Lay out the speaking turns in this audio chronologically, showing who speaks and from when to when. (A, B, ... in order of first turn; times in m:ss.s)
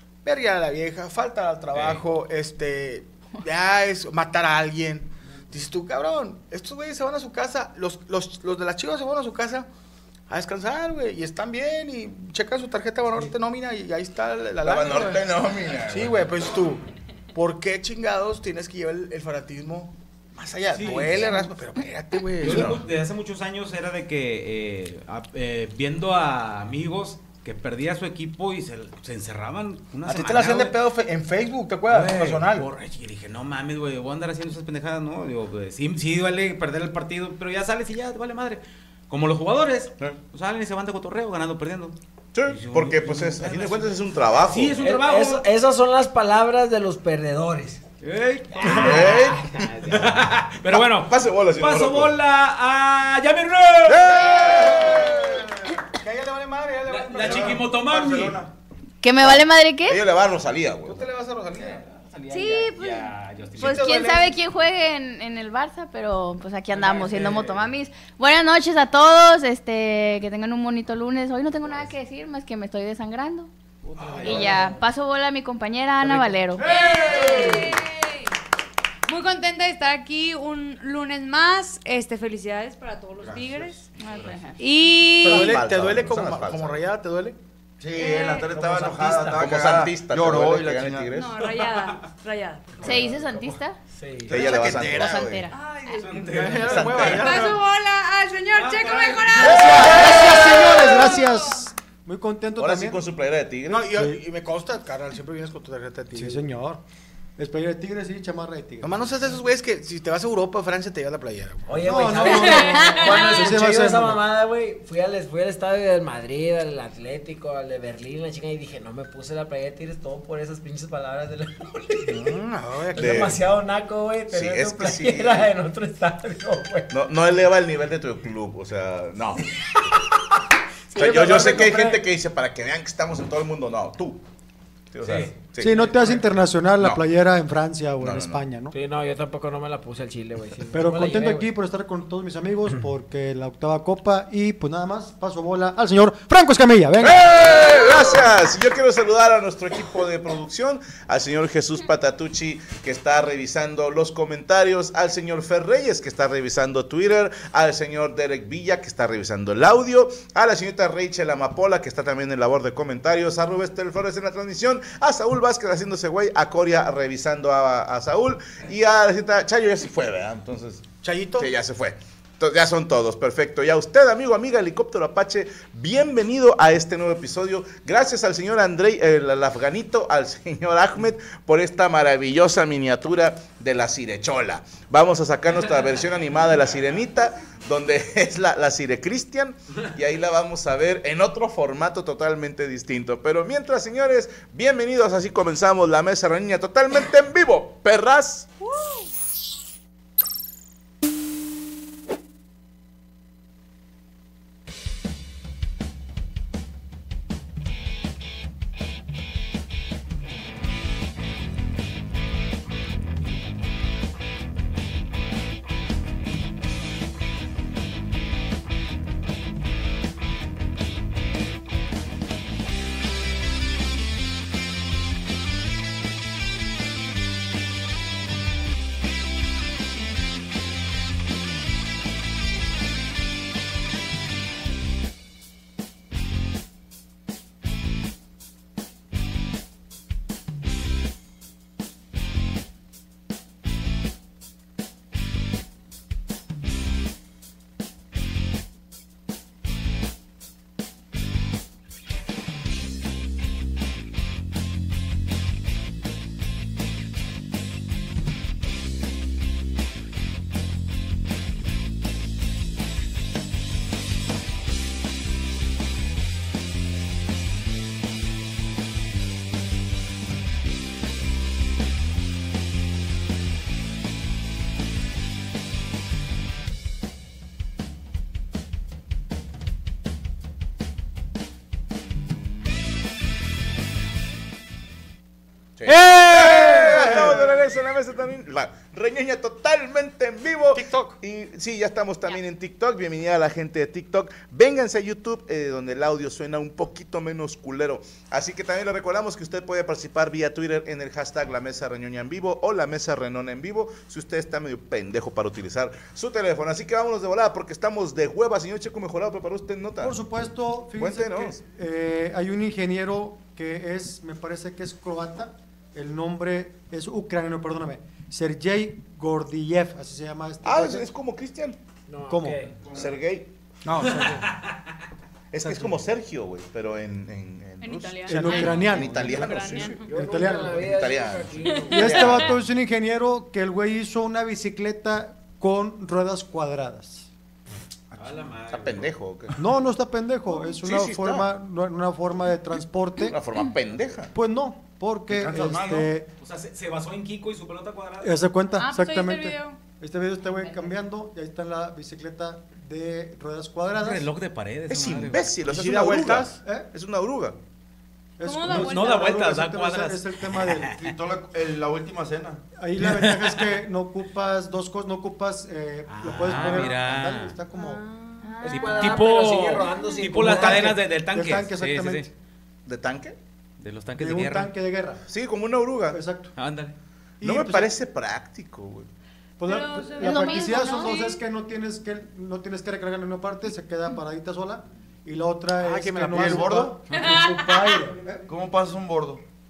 0:00.2-0:09.7 A
0:01.7-0:02.0 B
0:10.3-0:15.2 A
0:14.6-0:16.3 C
0:15.9-0:16.8 A
0:17.3-0:22.8 A
0:20.7-0:21.3 B
0:22.4-0:30.8 B
0:22.4-0:22.8 C
0:30.1-0:32.7 A
0:31.9-0:42.0 B
0:42.3-0:44.8 C
0:42.5-0:45.4 B
0:44.8-0:47.8 D
0:48.0-0:54.4 B
0:48.6-0:52.2 C
0:48.7-0:49.2 D
0:53.9-0:55.4 C
0:54.4-0:57.8 A
0:56.9-0:58.4 B
0:57.2-0:58.5 E
0:59.0-1:00.0 F
0:59.2-1:01.1 C
1:00.8-1:02.4 A
1:01.8-1:04.1 B
1:02.3-1:13.5 F
1:03.6-1:04.4 A
1:06.7-1:07.6 B
1:13.8-1:14.7 B
1:14.0-1:14.7 A
1:14.2-1:16.7 F
1:16.0-1:17.8 B
1:16.6-1:18.3 G
1:17.0-1:17.7 A
1:19.1-1:25.5 G
1:23.2-1:23.7 E
1:25.2-1:26.8 C
1:25.2-1:27.4 A
1:27.8-1:31.1 E
1:28.0-1:28.5 G
1:28.4-1:29.4 D
1:29.4-1:31.4 C
1:31.1-1:32.9 G
1:31.5-1:31.9 B
1:32.8-1:33.8 F
1:33.9-1:34.4 D
1:34.3-1:35.4 C
1:34.3-1:35.4 E
1:34.4-1:35.5 F
1:35.5-1:36.4 G
1:35.5-1:37.4 B
1:36.2-1:37.6 A
1:36.7-1:37.2 C
1:37.0-1:41.5 G
1:38.5-1:40.4 B
1:39.4-1:43.0 H
1:42.6-1:43.9 C
1:43.7-1:46.4 A
1:46.2-1:46.8 H
1:47.4-1:49.1 H
1:48.8-1:51.9 A
1:51.7-2:02.3 D
1:51.8-1:54.2 H
1:52.2-1:53.5 G
2:02.1-2:03.3 A
2:02.9-2:06.9 D
2:03.0-2:03.4 C
2:04.3-2:05.5 C
2:06.9-2:09.6 C
2:10.9-2:14.2 C
2:10.9-2:11.6 D
2:14.9-2:15.9 C
2:15.0-2:15.3 B
2:15.6-2:18.7 H
2:16.8-2:17.0 C
2:18.0-2:18.4 C
2:18.7-2:21.5 D
2:20.7-2:27.2 H
2:27.0-2:50.9 C
2:51.0-2:51.5 A
2:51.4-3:18.5 C
4:45.8-5:10.2 C
4:45.8-4:47.5 A
4:50.7-4:51.2 A
5:10.0-5:21.1 H
5:11.0-5:11.6 C
5:20.6-5:21.8 C
5:22.1-5:22.7 D
5:22.3-5:22.6 H
5:22.9-5:23.5 C
5:23.8-5:24.5 A
5:24.0-5:24.7 B
5:25.5-5:30.0 C
5:25.6-5:26.0 A
5:27.8-5:30.1 G
5:28.3-5:29.3 H
5:30.1-5:32.3 D
5:30.1-5:30.9 H
5:30.8-5:32.6 C
5:31.6-5:32.5 G
5:31.9-5:37.3 H
5:38.1-5:39.1 B
5:38.7-5:39.6 C
5:39.6-5:43.4 H
5:40.6-5:41.5 C
5:43.2-5:44.3 C
5:44.3-5:46.3 H
5:45.3-5:46.1 E
5:46.4-5:48.3 B
5:48.2-5:54.3 H
5:48.8-5:49.8 G
5:50.5-5:50.8 G
5:53.9-5:55.5 B
5:54.9-5:57.6 C
5:55.6-5:56.6 A
5:56.6-5:56.9 H
5:58.4-6:01.0 H
5:58.4-5:59.3 G
5:58.6-6:01.0 B
6:01.0-6:02.6 E
6:02.8-6:08.0 H
6:03.0-6:03.7 B
6:06.1-6:07.6 B
6:07.8-6:08.9 G
6:08.4-6:09.2 F
6:08.6-6:10.9 D
6:08.7-6:12.3 B
6:10.4-6:12.3 H
6:12.8-6:13.4 C
6:13.8-6:14.7 B
6:14.2-6:15.2 H
6:15.3-6:16.2 C
6:16.1-6:16.5 H
6:16.6-6:16.9 B
6:17.4-6:17.9 H
6:17.4-6:19.1 C
6:19.6-6:28.4 H
6:19.6-6:21.4 G
6:20.2-6:21.2 F
6:25.8-6:26.9 A
6:26.4-6:27.0 E
6:27.1-6:28.0 G
6:28.4-6:29.4 E